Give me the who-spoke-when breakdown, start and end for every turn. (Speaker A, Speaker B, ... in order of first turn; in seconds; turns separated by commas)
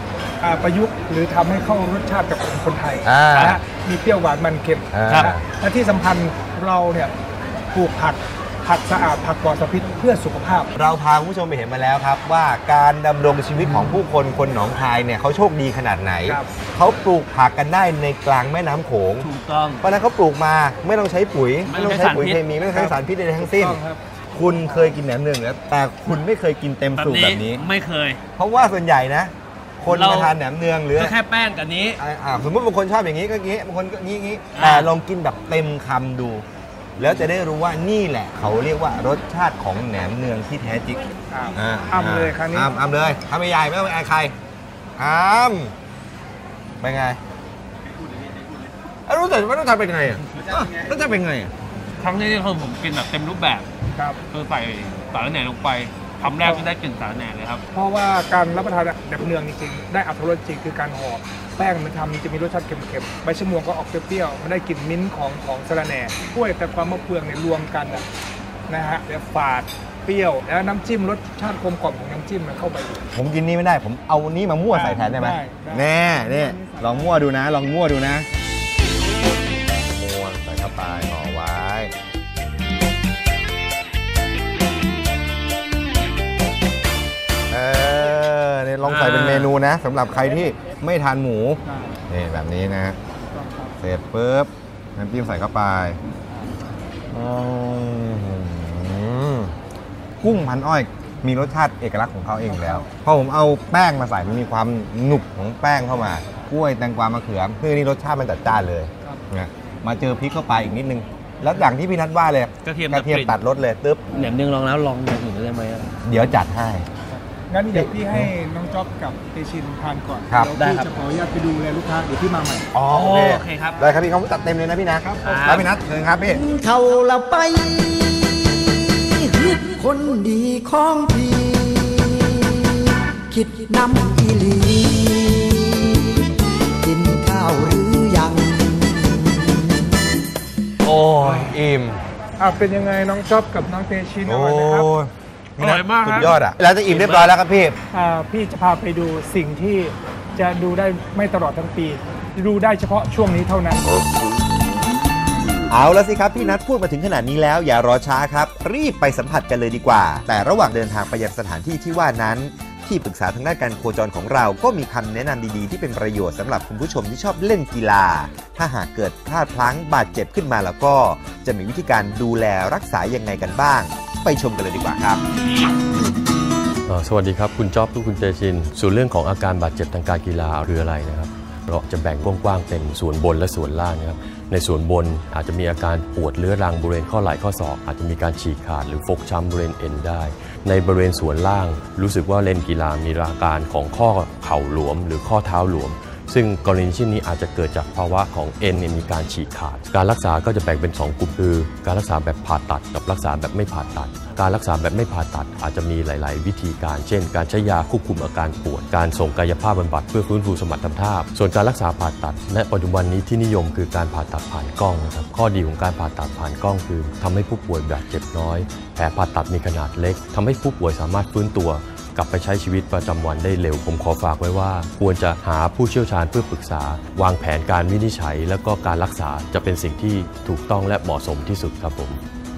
Speaker A: 0.4-7.1, Speaker B: 3.0-3.6, Speaker B: 4.9-5.4, Speaker A: 7.7-10.7, Speaker B: 10.7-19.3, Speaker C: 19.3-19.7, Speaker B: 19.8-23.8, Speaker A: 22.7-24.9, Speaker B: 24.3-27.7, Speaker C: 27.6-28.2, Speaker B: 28.4-31.2, Speaker C: 31.1-31.8, Speaker B: 32.0-36.5, Speaker B: 37.0-44.3, Speaker A: 41.3-42.7, Speaker B: 45.0-45.7, Speaker B: 46.8-47.2, Speaker B: 49.0-51.5, Speaker C: 52.0-53.6, Speaker A: 54.0-54.2, Speaker C: 54.3-56.1, Speaker A: 56.2-56.7, Speaker C: 56.8-57.6, Speaker A: 57.7-68.0, Speaker A: 68.7-73.0, Speaker B: 73.1-78.2, Speaker A: 74.7-77.2, Speaker B: 79.9-81.9, Speaker B: 87.5-93.0, Speaker A: 91.7-92.0, Speaker A: 93.3-93.7, Speaker B: 93.8-96.0, Speaker B: 97.1-99.5, Speaker B: 100.2-114.0, Speaker A: 102.5-102.8, Speaker B: 116.0-116.9, Speaker A: 117.3-122.7, Speaker B: 117.7-118.3, Speaker B: 120.3-120.5, Speaker B: 122.7-126.4, Speaker A: 125.0-125.6, Speaker D: 126.3-128.2, Speaker D: 129.1-136.3, Speaker D: 136.8-140.0, Speaker A: 142.4-144.9, Speaker B: 144.2-147.8, Speaker A: 147.9-153.8, Speaker B: 155.7-175.2, Speaker E: 176.8-232.2